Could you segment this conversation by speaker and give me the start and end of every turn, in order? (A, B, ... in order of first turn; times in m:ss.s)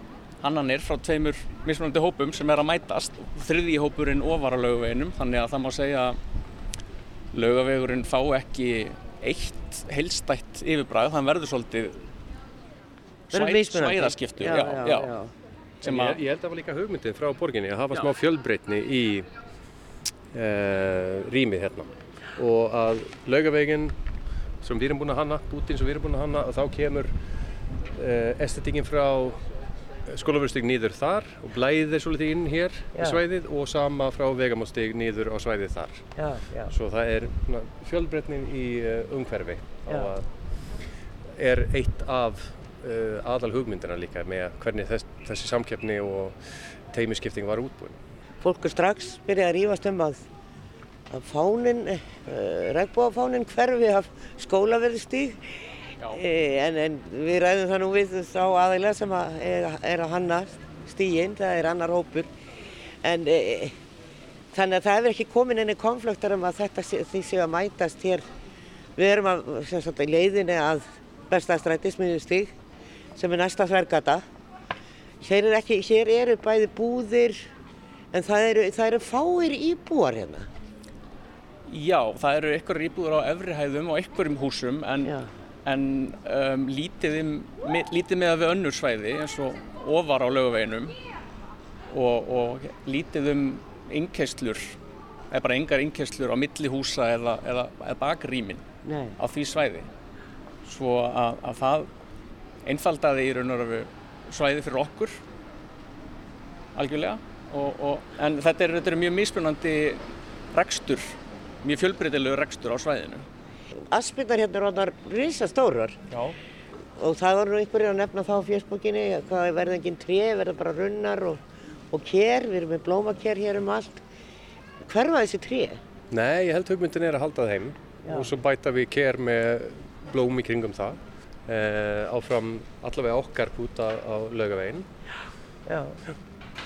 0:00.4-0:06.2 A
0:07.3-0:12.1 A
0:13.3-0:15.1 A
0:13.3-0:15.3 B
0:15.8-0:16.2 A
0:15.8-0:19.3 C
0:20.3-0:23.9 C
0:24.6-0:27.1 C
0:27.9-0:29.4 C
0:30.1-0:36.1 C
0:33.0-0:33.2 B
0:36.2-0:36.7 B
0:36.7-0:40.3 C
0:41.3-0:46.4 C
0:46.9-0:48.0 C
0:48.4-0:50.3 B
0:51.1-1:02.3 B
1:03.0-1:03.8 B
1:04.5-1:08.2 B
1:09.0-1:12.5 B
1:13.2-1:14.2 B
1:15.2-1:17.5 B
1:18.1-1:20.5 B
1:21.7-1:31.0 A
1:31.9-1:34.8 A
1:35.3-1:38.6 A
1:38.8-1:39.2 B
1:39.2-1:39.9 A
1:40.6-1:41.9 A
1:42.6-1:45.2 A
1:46.8-1:53.3 A
1:53.9-1:56.0 B
1:56.1-1:56.4 C
1:57.0-2:04.0 B
2:04.8-2:05.8 B
2:06.1-2:14.9 C
2:08.0-2:08.3 B
2:15.7-2:16.0 B